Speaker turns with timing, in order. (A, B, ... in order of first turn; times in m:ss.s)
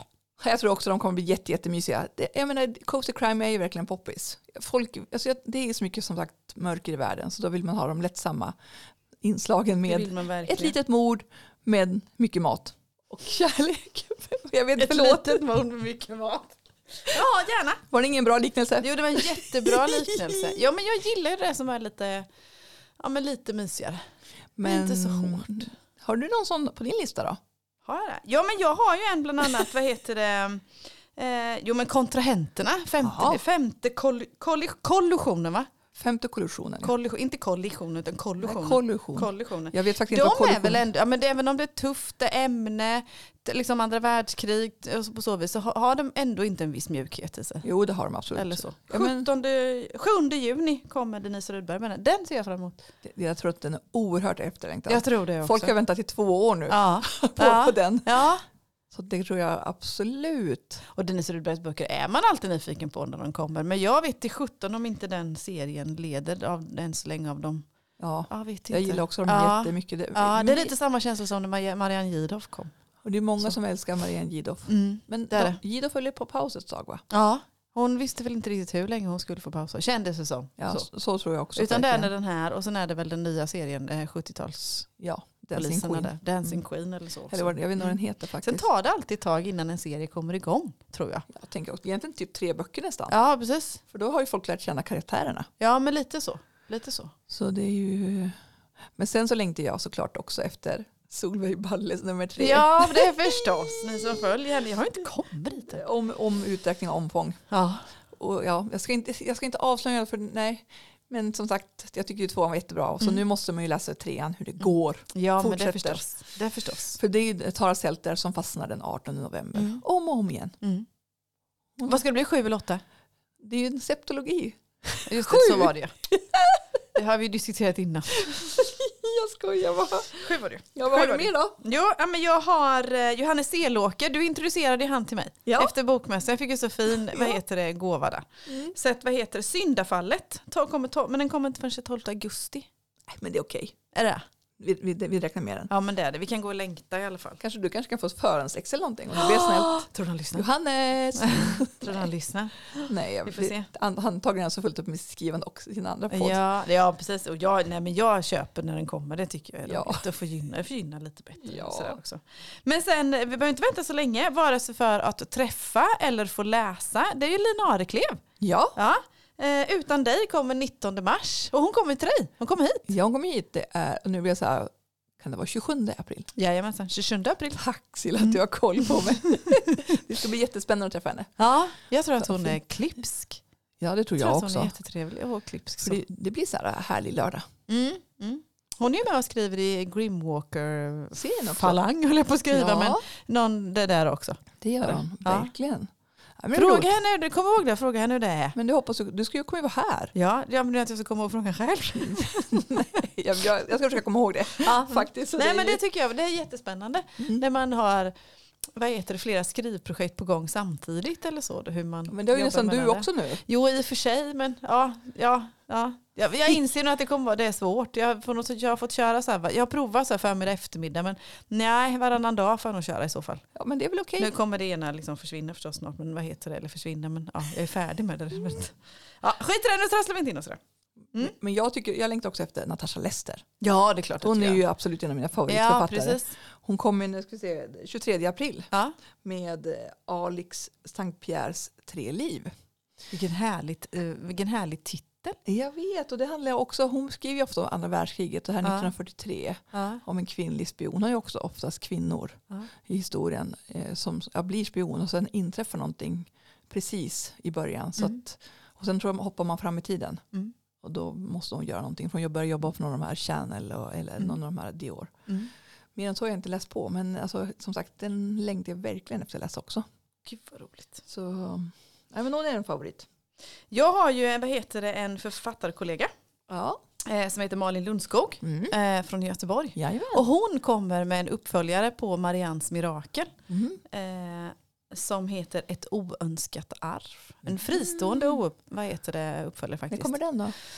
0:00.4-0:08.5 A
0:09.2-0:15.4 A
0:09.8-0:10.8 B
0:14.8-0:17.8 B
0:17.9-0:20.6 A
0:18.8-0:22.3 B
0:23.0-0:24.0 B
0:24.6-0:27.4 A
0:24.6-0:25.7 B
0:27.8-0:35.7 B
0:33.0-0:33.4 A
0:35.9-0:36.9 A
0:36.8-0:47.7 B
0:38.4-0:40.8 A
0:47.6-0:49.3 A
0:48.3-0:52.8 B
0:53.0-0:58.2 A
0:54.9-0:55.7 B
0:56.7-0:58.4 B
0:58.9-1:00.8 A
1:00.9-1:07.6 B
1:08.0-1:10.7 A
1:08.3-1:12.7 B
1:13.0-1:17.0 A
1:14.7-1:15.6 B
1:17.1-1:20.8 B
1:20.6-1:22.1 A
1:21.5-1:24.9 B
1:25.0-1:26.6 A
1:25.5-1:31.3 B
1:27.3-1:28.6 A
1:31.3-1:33.1 A
1:33.1-1:33.8 B
1:33.9-1:35.5 A
1:35.6-1:37.1 B
1:37.3-1:38.3 A
1:39.0-1:44.1 A
1:42.4-1:45.8 B
1:45.7-1:47.4 A
1:47.5-1:47.8 B
1:48.1-1:56.0 A
1:55.1-1:57.0 B
1:57.0-2:00.6 A
1:59.5-1:59.8 B
2:01.8-2:02.8 B
2:03.4-2:06.6 A
2:05.0-2:05.9 B
2:06.9-2:08.5 B
2:08.2-2:11.6 A
2:10.2-2:22.7 B
2:15.4-2:15.7 A
2:16.9-2:17.4 A
2:18.5-2:18.7 A
2:23.1-2:23.8 A
2:23.9-2:24.2 B
2:24.6-2:25.7 A
2:25.7-2:27.4 B
2:27.4-2:32.1 A
2:29.2-2:30.4 B
2:31.1-2:33.7 B
2:32.8-2:36.4 A
2:36.1-2:48.2 B
2:39.6-2:40.0 A
2:41.4-2:42.0 A
2:48.4-2:48.8 A
2:48.8-2:52.9 B
2:52.9-2:56.3 A
2:56.3-2:57.6 B
2:57.5-3:01.3 A
2:58.2-2:59.8 B
3:01.4-3:03.4 B
3:02.2-3:02.6 A
3:03.8-3:04.7 A
3:04.2-3:06.0 B
3:05.8-3:07.4 A
3:07.7-3:15.5 B
3:11.1-3:11.8 A
3:12.5-3:13.0 A
3:14.6-3:16.9 A
3:16.5-3:18.6 B
3:18.5-3:20.1 A
3:20.1-3:23.0 B
3:22.0-3:25.8 A
3:24.6-3:28.1 B
3:28.8-3:43.4 B
3:32.1-3:33.4 A
3:43.5-3:44.3 A
3:44.2-3:50.6 B
3:51.2-3:53.4 A
3:53.6-3:54.6 B
3:54.2-3:58.7 A
3:55.5-3:56.3 B
3:59.2-4:02.5 A
4:03.1-4:05.4 B
4:05.4-4:20.2 A
4:08.6-4:08.9 B
4:09.7-4:10.0 B
4:20.8-4:25.1 A
4:26.0-4:29.8 A
4:30.2-4:31.0 B
4:31.1-4:33.1 A
4:33.7-4:36.1 B
4:36.5-4:36.8 A
4:37.0-4:43.3 B
4:38.4-4:38.7 A
4:39.8-4:40.2 A
4:43.5-4:43.8 A
4:43.9-4:50.1 B
4:47.6-4:48.4 A
4:49.9-4:50.6 A